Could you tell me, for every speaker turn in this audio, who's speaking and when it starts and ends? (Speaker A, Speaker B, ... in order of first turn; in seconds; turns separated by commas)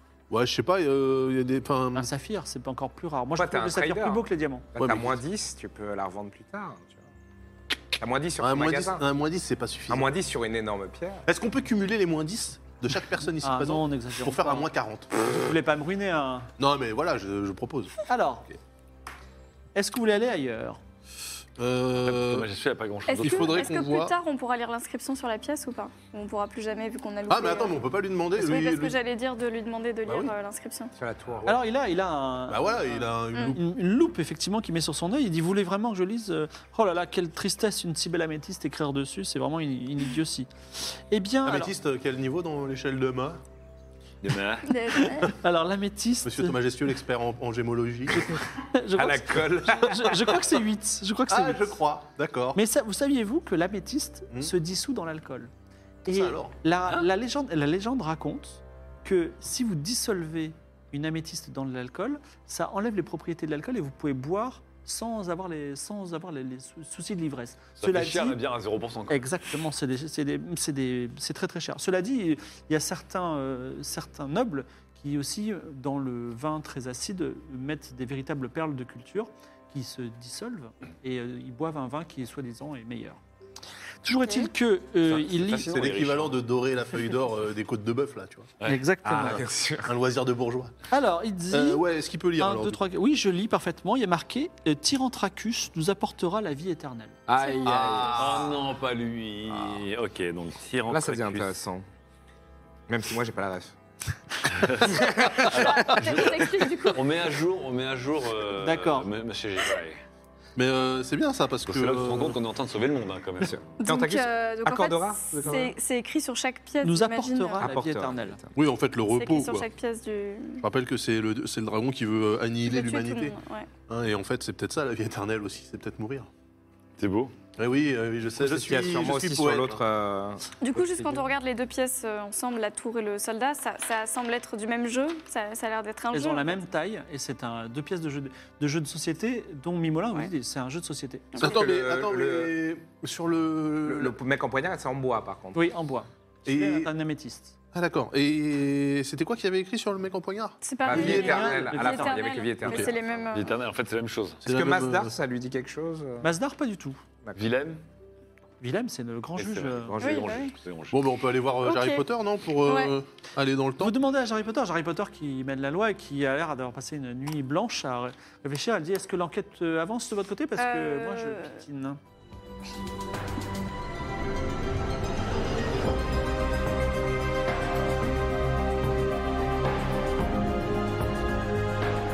Speaker A: 0.3-2.1, Speaker B: 1.9-4.7, Speaker C: 3.3-7.1, Speaker A: 4.8-5.1, Speaker C: 8.0-9.1, Speaker A: 8.4-10.1, Speaker C: 9.9-11.3, Speaker A: 11.2-15.1, Speaker B: 13.4-14.7, Speaker B: 15.2-16.5, Speaker A: 16.6-18.0, Speaker B: 18.1-18.5, Speaker B: 19.7-20.8, Speaker A: 21.6-22.5, Speaker D: 22.0-23.7, Speaker E: 23.1-30.9, Speaker A: 23.2-24.1, Speaker A: 27.3-28.9, Speaker C: 30.9-31.6, Speaker B: 31.4-41.7, Speaker A: 32.5-33.6, Speaker A: 41.4-43.4, Speaker D: 44.2-44.9, Speaker E: 44.6-45.3, Speaker B: 45.3-46.6, Speaker A: 46.2-48.3, Speaker B: 48.1-51.8, Speaker C: 48.9-50.4, Speaker A: 51.3-52.6, Speaker B: 52.5-55.5, Speaker B: 56.0-68.4, Speaker A: 56.1-56.5, Speaker D: 67.8-69.3, Speaker B: 69.1-83.2, Speaker B: 84.0-85.8, Speaker E: 84.2-84.5, Speaker D: 85.0-86.3, Speaker A: 85.7-88.5, Speaker B: 88.6-89.5, Speaker C: 89.0-90.0, Speaker A: 89.8-90.8, Speaker B: 90.9-91.8, Speaker A: 91.5-92.8, Speaker B: 92.4-97.2, Speaker C: 97.3-98.5, Speaker E: 97.3-98.2, Speaker A: 97.6-98.5, Speaker D: 98.1-101.5, Speaker C: 100.9-101.8, Speaker C: 102.9-103.8, Speaker D: 104.5-105.0, Speaker C: 104.8-105.5, Speaker E: 105.4-107.0, Speaker D: 105.5-110.0, Speaker B: 108.5-109.1, Speaker A: 110.5-112.4, Speaker D: 111.7-113.6, Speaker C: 113.4-115.7, Speaker E: 113.8-117.6, Speaker B: 116.8-118.4, Speaker C: 117.6-118.5, Speaker A: 118.5-119.7, Speaker E: 119.1-120.7, Speaker A: 120.6-123.4, Speaker E: 122.6-123.7, Speaker A: 123.9-126.3, Speaker D: 127.0-127.3, Speaker A: 127.6-129.8, Speaker C: 128.3-131.3, Speaker E: 130.6-136.6, Speaker B: 136.1-141.3, Speaker E: 141.3-141.6, Speaker C: 141.4-142.5, Speaker A: 141.4-144.1, Speaker C: 143.8-145.7, Speaker B: 145.5-147.6, Speaker A: 146.4-146.9, Speaker A: 147.7-151.6, Speaker E: 150.6-153.6, Speaker C: 150.8-153.3, Speaker B: 150.9-152.3, Speaker D: 153.3-154.4, Speaker A: 154.4-155.1, Speaker C: 154.4-156.3, Speaker B: 156.2-157.0, Speaker D: 157.3-157.8, Speaker B: 158.6-160.1, Speaker D: 159.4-161.0, Speaker E: 160.0-160.5, Speaker C: 160.0-160.3, Speaker A: 160.9-163.9, Speaker E: 161.6-162.1, Speaker E: 162.6-162.9, Speaker B: 163.8-172.0, Speaker E: 170.6-171.6